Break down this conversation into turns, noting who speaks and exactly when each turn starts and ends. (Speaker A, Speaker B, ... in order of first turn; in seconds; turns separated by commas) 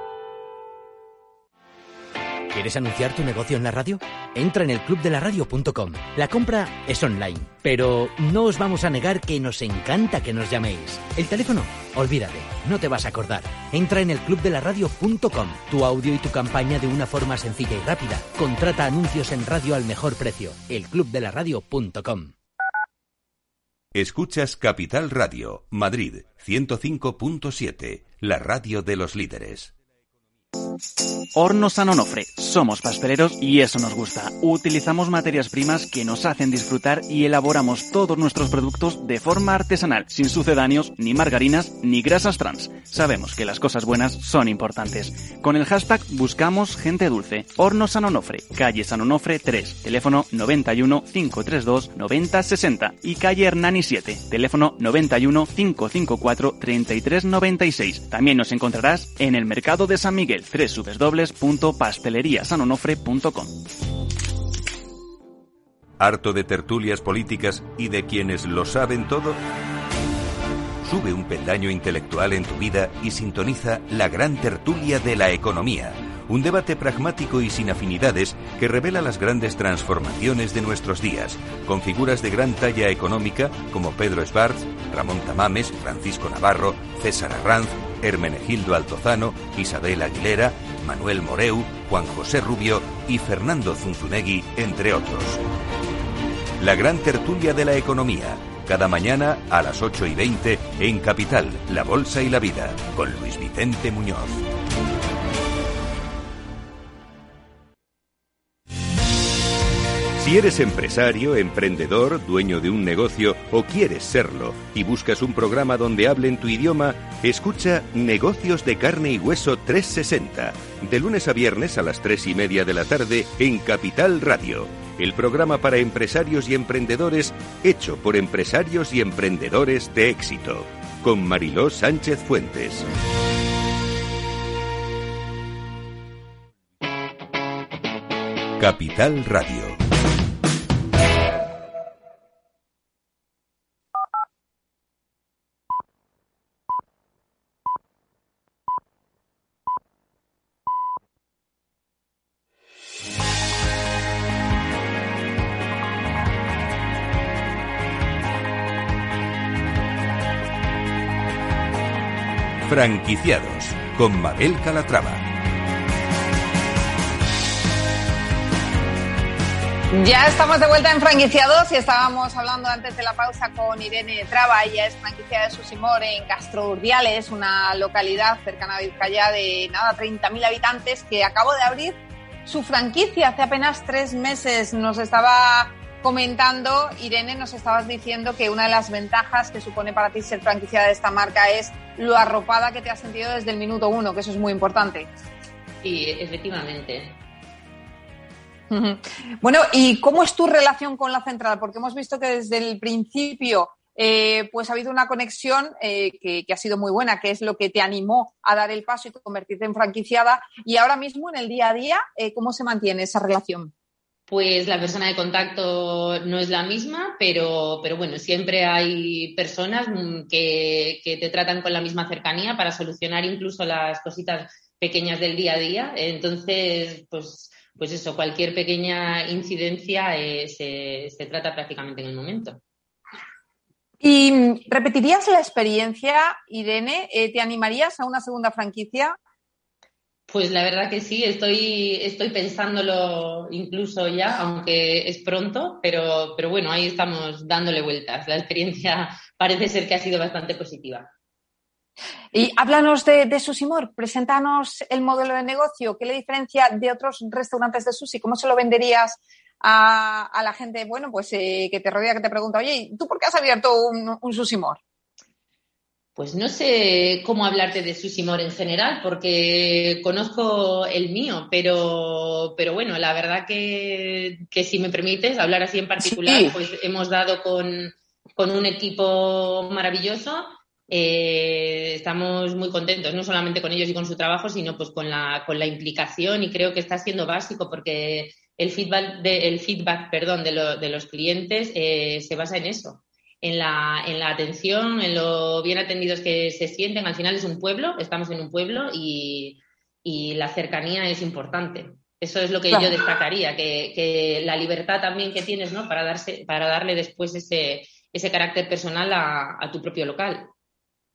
Speaker A: 2.5-22.3, Speaker B: 23.9-29.7, Speaker C: 31.3-63.6, Speaker B: 66.0-69.4, Speaker B: 70.8-95.4, Speaker B: 96.6-104.5, Speaker B: 110.2-132.9, Speaker B: 138.6-139.8, Speaker B: 162.6-165.2, Speaker D: 169.9-195.1, Speaker E: 195.8-197.2, Speaker D: 198.7-213.7, Speaker E: 214.3-232.6, Speaker D: 234.0-239.2, Speaker E: 240.3-251.1, Speaker D: 252.3-264.8, Speaker E: 266.1-310.5, Speaker D: 276.0-276.5, Speaker D: 302.7-303.0